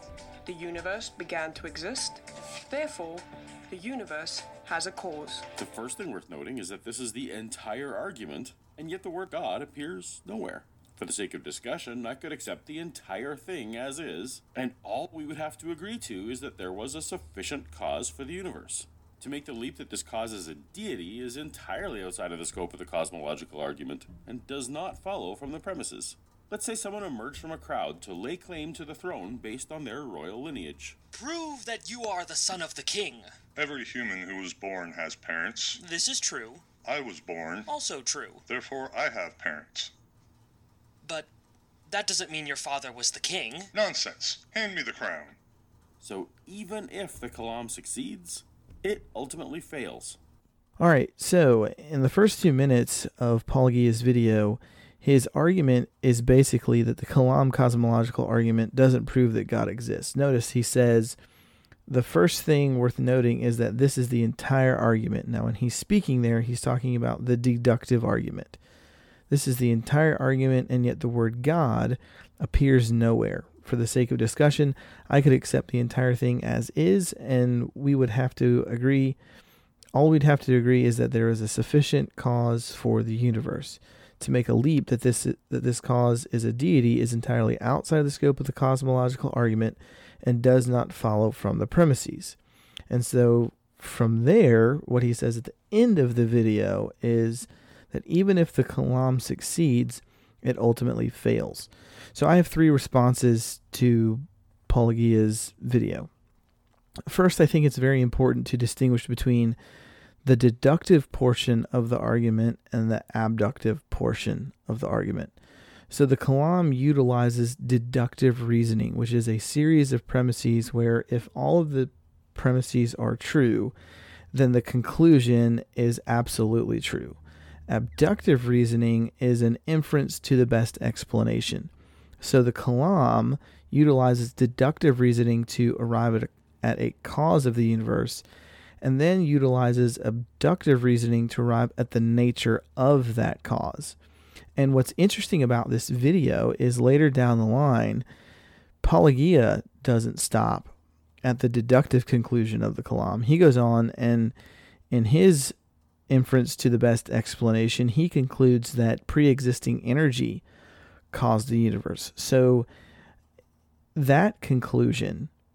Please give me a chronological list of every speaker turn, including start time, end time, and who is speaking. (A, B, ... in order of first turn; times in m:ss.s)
0:00.4-0:05.4 A
0:05.6-0:31.0 B
0:31.1-0:33.3 C
0:33.6-0:35.8 D
0:35.8-0:36.6 C
0:36.8-0:37.7 D
0:37.7-0:38.4 C
0:38.5-0:39.9 D
0:41.0-0:41.3 C
0:41.9-0:43.7 C
0:43.7-0:45.4 D
0:46.0-0:50.2 B
0:50.8-1:01.2 E
1:01.9-1:08.6 E
1:09.3-1:19.2 E
1:19.9-1:32.4 E
1:32.9-1:46.1 E
1:47.1-1:49.6 E
1:50.2-1:55.4 E
1:55.9-2:03.8 E
2:04.3-2:18.2 E
2:18.8-2:24.0 E
2:24.6-2:28.0 E
2:28.8-2:34.3 E
2:34.9-2:35.6 E
2:36.1-2:40.4 E
2:41.1-2:42.7 E
2:43.9-2:45.3 E